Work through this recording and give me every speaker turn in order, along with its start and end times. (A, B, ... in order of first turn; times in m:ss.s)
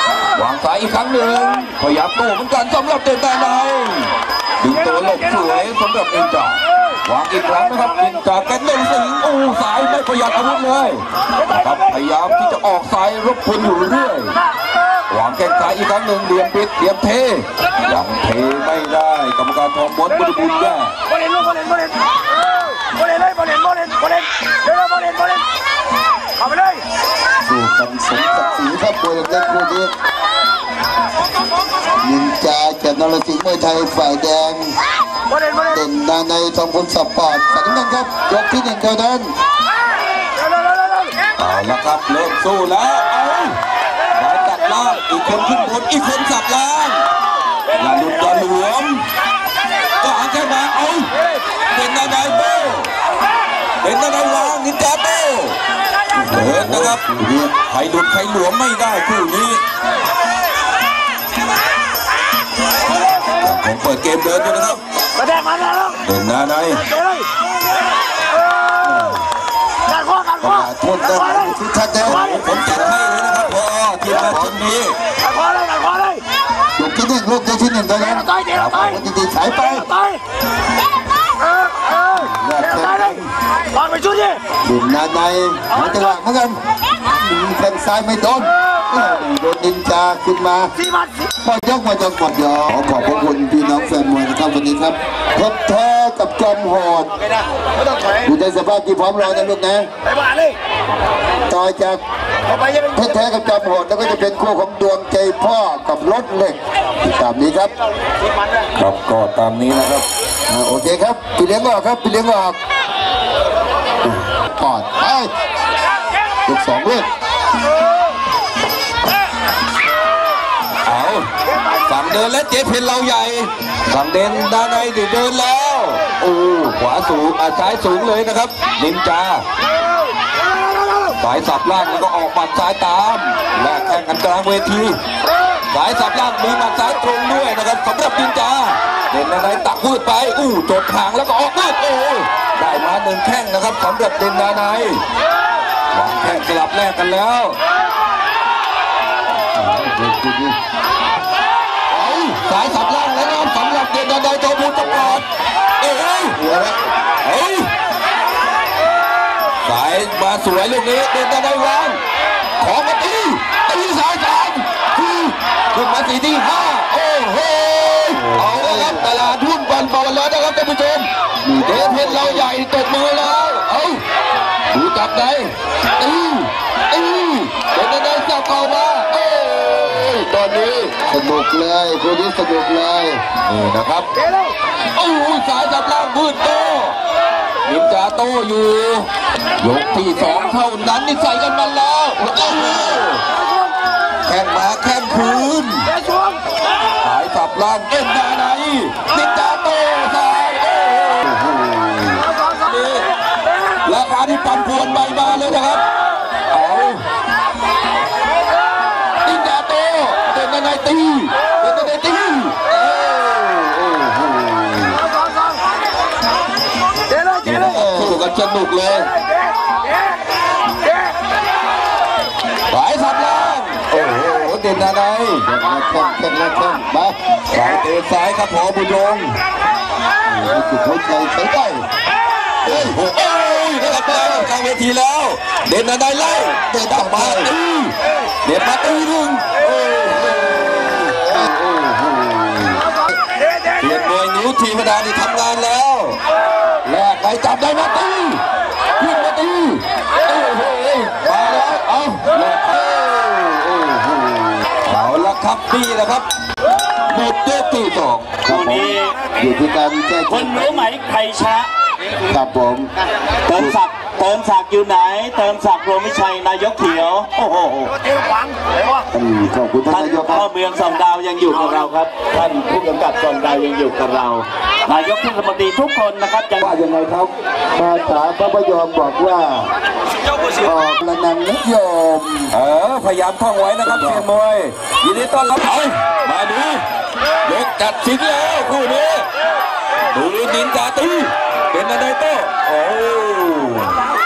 0:00.3-0:14.4 A
0:15.1-0:21.0 A
0:21.4-0:21.8 B
0:23.0-0:25.3 B
0:27.4-0:29.9 C
0:32.0-0:34.8 C
0:35.6-0:39.3 C
0:41.4-0:43.6 A
0:44.1-0:47.0 A
0:47.8-0:49.0 A
0:50.0-0:51.1 A
0:51.7-0:52.9 A
0:53.8-0:55.6 A
0:56.2-0:57.5 C
0:56.3-0:57.1 A
0:57.7-0:59.6 A
1:03.4-1:04.8 A
1:05.2-1:05.8 B
1:05.9-1:06.9 A
1:10.0-1:10.4 B
1:10.4-1:12.4 C
1:12.0-1:15.0 A
1:14.1-1:14.6 C
1:15.3-1:16.2 B
1:16.8-1:20.0 C
1:18.4-1:19.1 A
1:22.1-1:23.3 C
1:23.8-1:24.4 B
1:24.6-1:26.6 C
1:27.1-1:30.7 C
1:31.4-1:37.1 C
1:38.2-1:39.9 C
1:41.5-1:42.0 C
1:42.6-1:47.7 C
1:48.8-1:50.1 A
1:50.5-1:52.6 C
1:54.0-1:55.3 C
1:56.5-1:57.1 C
2:00.9-2:09.4 A
2:11.2-2:15.0 A
2:15.7-2:25.0 A
2:25.9-2:27.6 A
2:29.6-2:30.6 C
2:32.0-2:32.3 C
2:32.2-2:35.2 A
2:35.8-2:36.4 A
2:36.4-2:36.8 C
2:37.2-2:37.7 A
2:39.6-2:42.0 A
2:42.6-2:51.1 A
2:48.2-2:49.1 C
2:51.4-2:52.5 C
2:51.6-2:54.0 A
2:54.7-3:00.9 A
3:01.1-3:03.2 C
3:03.4-3:04.1 A
3:04.9-3:07.0 A
3:07.6-3:13.2 A
3:14.2-3:16.0 A
3:17.0-3:21.4 A
3:21.4-3:22.2 C
3:22.4-3:23.1 A
3:23.8-3:25.8 A
3:26.5-3:27.0 A
3:29.2-3:35.0 A
3:37.4-3:39.1 A
3:37.6-3:38.2 C
3:42.7-3:45.5 A
3:45.4-3:47.2 C
3:47.5-3:49.4 A
3:50.3-3:51.9 C
3:52.6-4:02.8 A
3:56.7-3:57.5 C
4:03.8-4:06.2 A
4:06.8-4:08.4 A
4:09.0-4:13.8 A
4:13.8-4:14.6 C
4:14.8-4:16.3 A
4:17.1-4:18.9 A
4:18.4-4:19.2 D
4:19.4-4:20.9 C
4:20.3-4:21.7 D
4:22.3-4:22.9 C
4:23.5-4:28.0 D
4:29.1-4:30.5 C
4:29.9-4:36.7 D
4:36.6-4:37.3 A
4:37.8-4:39.7 C
4:40.6-4:42.5 C
4:42.5-4:46.8 A
4:43.9-4:44.3 C
4:47.4-4:49.3 A
4:50.1-4:54.1 A